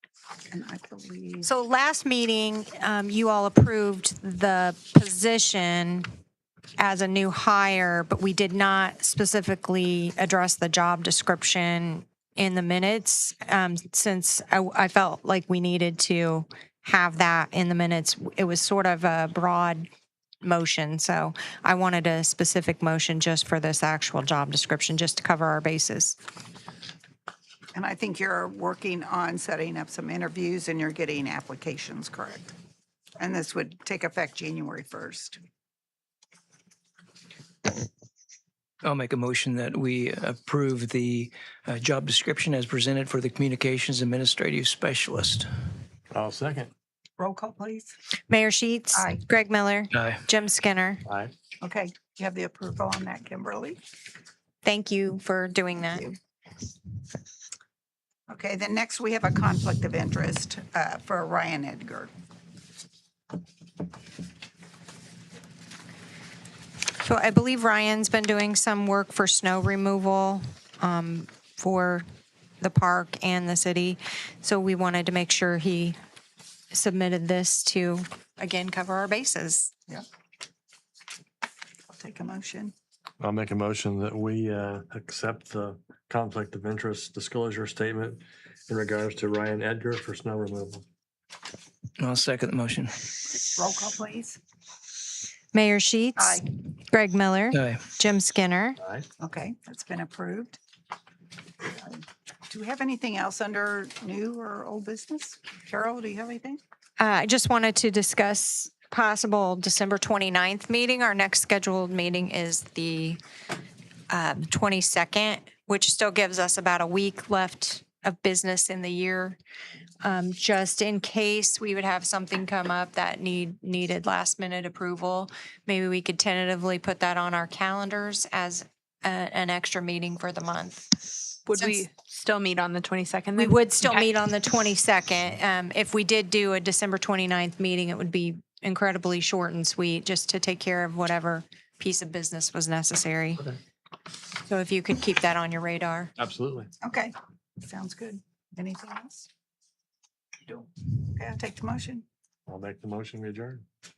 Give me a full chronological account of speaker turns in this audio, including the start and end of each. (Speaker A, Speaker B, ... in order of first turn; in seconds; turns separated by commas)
Speaker A: 0.5-1.5, Speaker B: 1.4-6.1, Speaker B: 6.8-19.9, Speaker B: 20.4-26.2, Speaker A: 27.7-32.5, Speaker A: 33.2-35.4, Speaker C: 38.8-45.5, Speaker D: 46.1-46.7, Speaker A: 47.2-47.9, Speaker B: 48.3-51.0, Speaker A: 49.0-49.2, Speaker C: 49.9-50.2, Speaker D: 51.1-51.3, Speaker A: 51.6-53.8, Speaker B: 54.6-56.1, Speaker A: 58.3-62.1, Speaker B: 67.0-72.0, Speaker B: 72.6-76.0, Speaker B: 76.7-79.7, Speaker A: 81.9-82.7, Speaker D: 83.2-90.8, Speaker C: 92.0-92.9, Speaker A: 93.5-94.4, Speaker B: 95.5-98.8, Speaker A: 96.2-96.4, Speaker A: 99.2-100.6, Speaker A: 101.7-106.6, Speaker B: 107.0-113.2, Speaker B: 114.1-119.4, Speaker B: 120.0-130.9, Speaker E: 131.5-134.0, Speaker B: 131.5-131.8, Speaker B: 133.4-143.5, Speaker B: 144.4-146.1, Speaker D: 146.2-146.7, Speaker A: 146.8-149.3, Speaker A: 150.5-152.0, Speaker D: 152.5-153.6